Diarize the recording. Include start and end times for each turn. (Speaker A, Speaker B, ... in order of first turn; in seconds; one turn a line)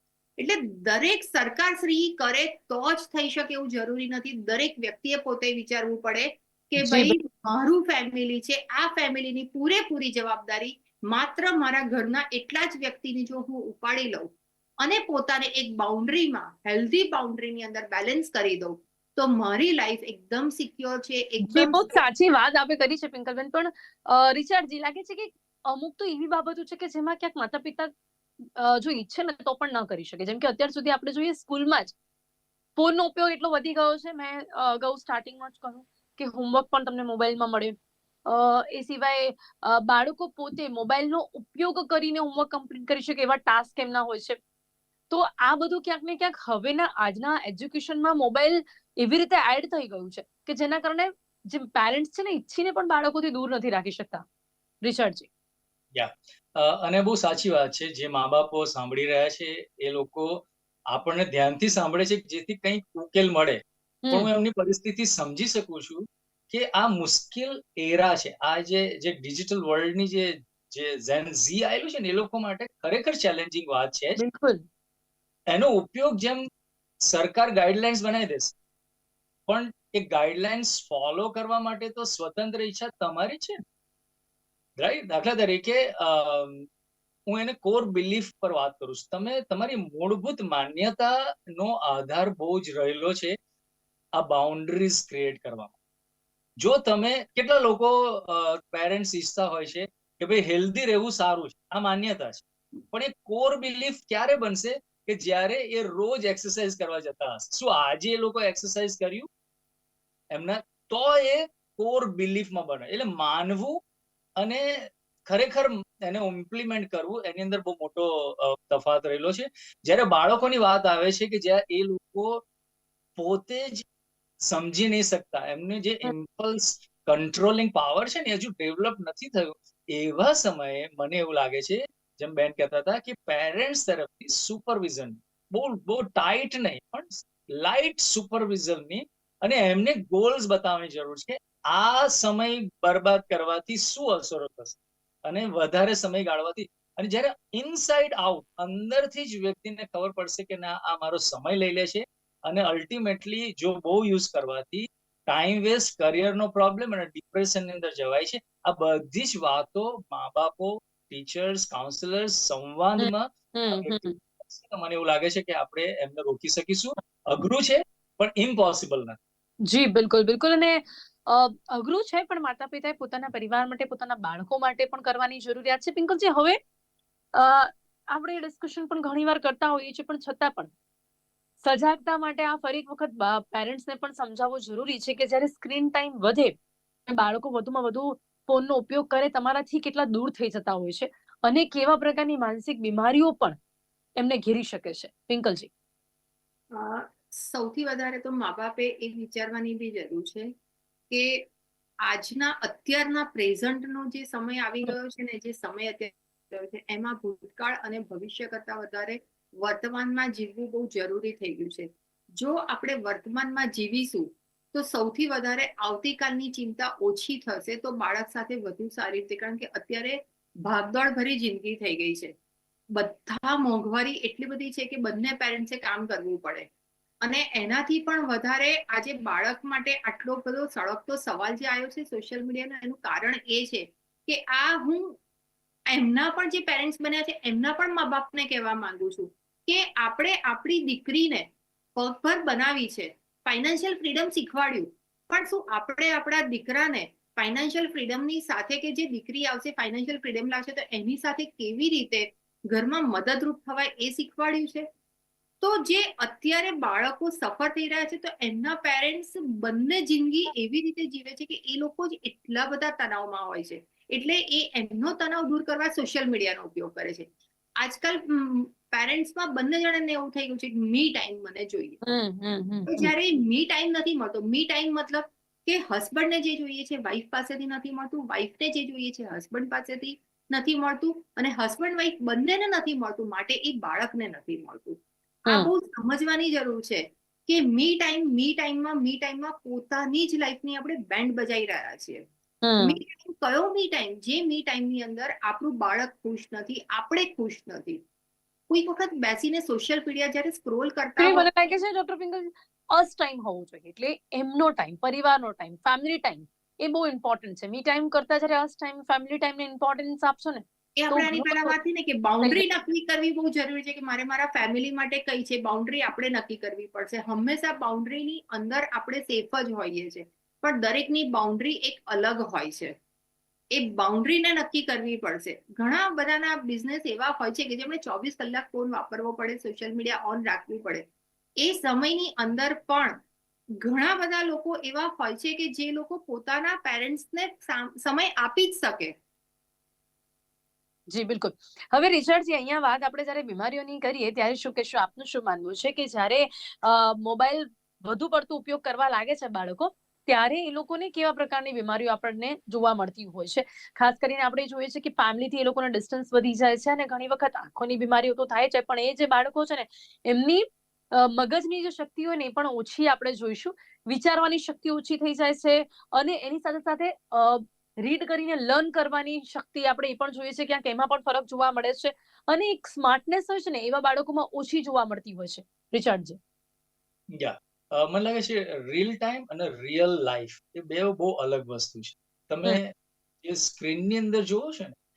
Speaker A: 0.4-21.9
Speaker B: 6.8-7.1
Speaker B: 21.4-27.9
Speaker B: 28.6-31.9
Speaker B: 32.8-37.7
Speaker B: 38.3-44.4
Speaker B: 45.1-54.2
Speaker B: 54.8-55.3
Speaker C: 55.9-63.6
Speaker C: 64.1-74.2
Speaker B: 74.2-74.6
Speaker C: 75.5-76.4
Speaker C: 77.0-78.5
Speaker C: 79.5-83.6
Speaker C: 84.8-86.7
Speaker C: 87.3-93.3
Speaker C: 94.2-95.7
Speaker C: 96.6-109.3
Speaker C: 110.3-113.8
Speaker C: 114.4-122.4
Speaker C: 123.2-123.8
Speaker C: 124.4-169.2
Speaker B: 163.0-164.2
Speaker B: 169.7-176.6
Speaker B: 177.3-180.7
Speaker B: 181.6-186.5
Speaker B: 187.1-193.6
Speaker B: 194.2-195.7
Speaker A: 196.7-200.5
Speaker A: 201.1-201.4
Speaker A: 202.0-222.3
Speaker A: 222.9-226.7
Speaker A: 227.2-235.2
Speaker A: 235.9-254.8
Speaker A: 255.6-267.3
Speaker A: 267.8-272.0
Speaker B: 272.0-273.1
Speaker A: 272.9-292.2
Speaker B: 292.6-293.0
Speaker A: 292.8-298.0
Speaker A: 298.7-301.5
Speaker B: 301.2-311.7
Speaker A: 311.0-322.9
Speaker A: 323.7-331.1
Speaker A: 331.6-333.2
Speaker A: 333.8-339.1
Speaker B: 341.1-360.6
Speaker B: 361.1-376.4
Speaker C: 377.3-384.9